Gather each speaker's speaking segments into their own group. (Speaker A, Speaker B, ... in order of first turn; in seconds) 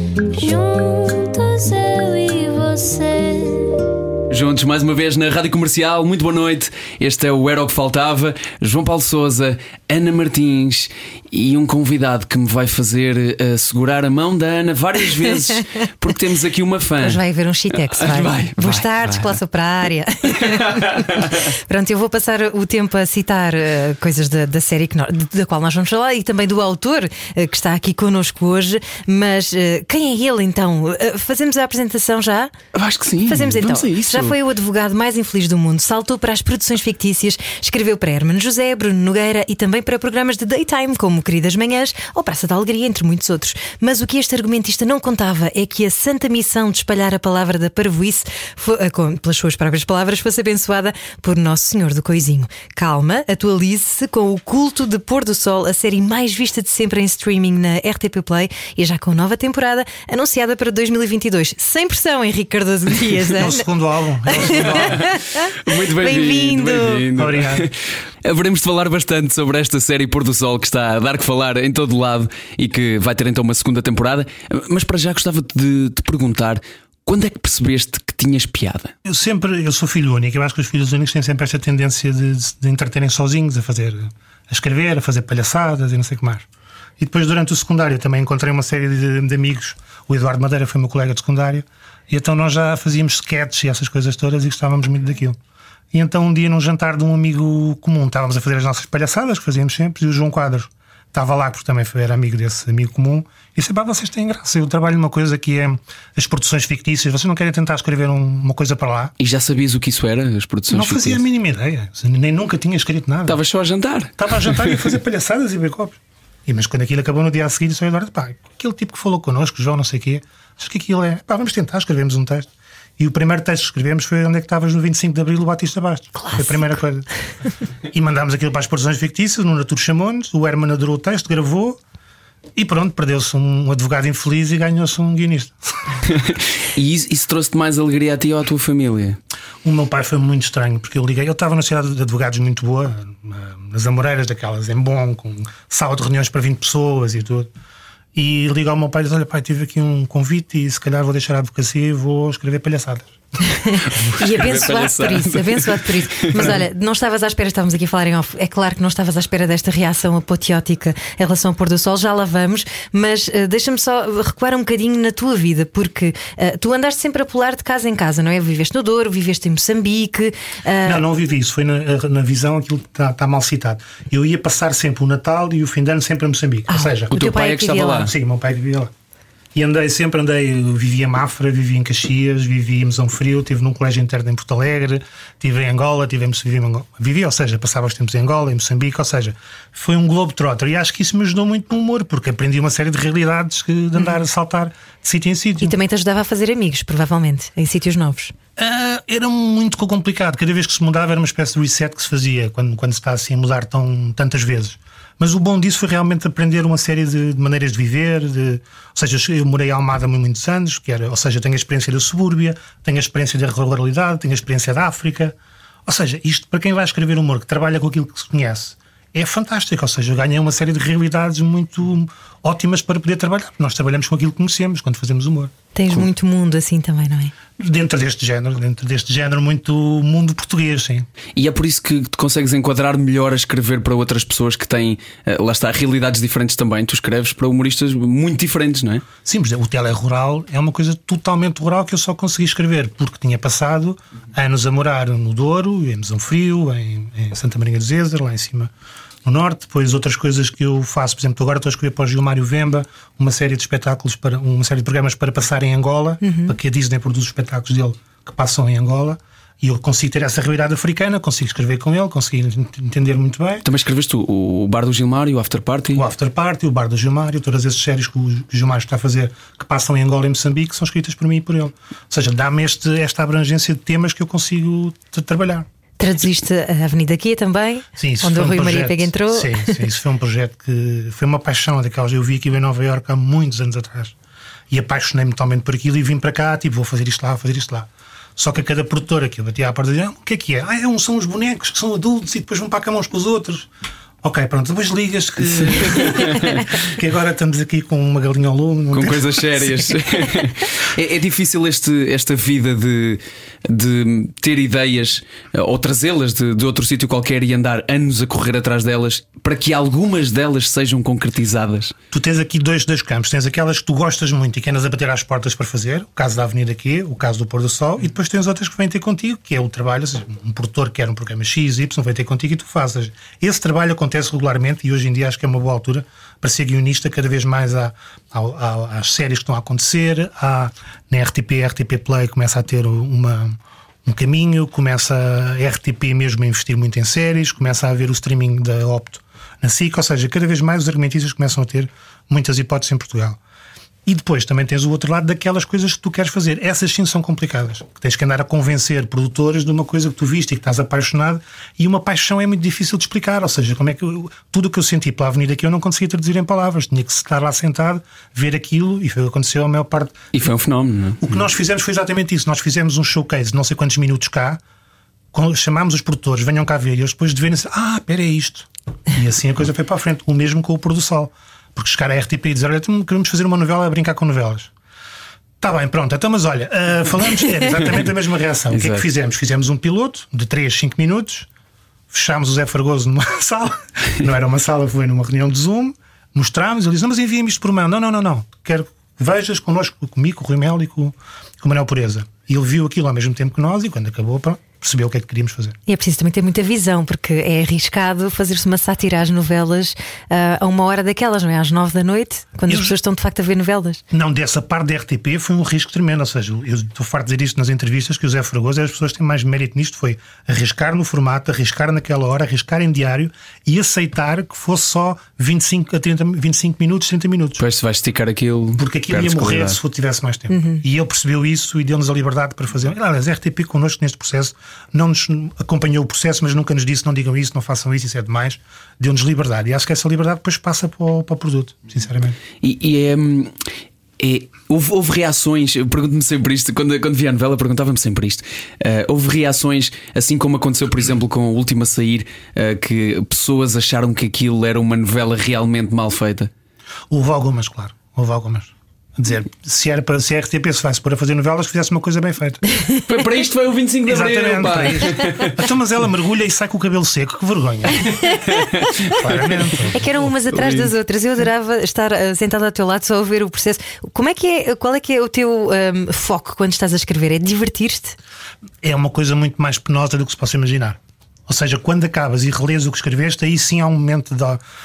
Speaker A: 0.3-3.9
Speaker B: 4.3-17.2, 17.9-19.4, 20.4-21.4, 32.7-34.4, 64.5-78.9, 109.2-111.2, 113.3-114.9, 136.1-139.2, 154.1-156.6, 177.1-178.1, 231.3-239.0, 263.6-266.0, 295.4-296.7, 298.9-311.9, 360.3-361.4, 378.7-379.1, 417.6-419.8, 432.6-433.6, 434.2-446.5, 453.0-455.6, 458.5-459.2, 460.5-460.9
Speaker C: 17.0-32.5, 33.2-63.6, 64.2-67.0, 126.2-126.6, 153.5-171.0, 176.7-178.1, 195.6-198.3, 225.7-227.3, 256.2-256.5, 276.0-279.8, 395.9-404.0, 420.5-420.8, 459.9-468.2
Speaker D: 63.3-65.0, 67.2-67.7, 79.0-86.5, 87.0-95.3, 95.9-109.1, 110.7-113.4, 114.2-127.1, 127.9-131.8, 132.6-136.0, 139.6-147.5, 148.1-153.2, 153.8-154.2, 170.8-177.2, 178.0-178.9, 179.5-195.8, 198.6-215.3, 215.8-225.5, 227.6-231.1, 239.2-248.7, 249.2-263.6, 265.9-275.6, 277.9-284.1, 284.7-293.7, 294.2-299.9, 312.1-343.4, 344.1-360.3, 361.2-364.6, 365.3-374.7, 375.6-381.5, 382.1-395.8, 402.7-402.9, 404.1-417.6, 418.8-432.4, 447.1-452.6, 454.1-458.3, 459.1-460.0, 468.8-474.6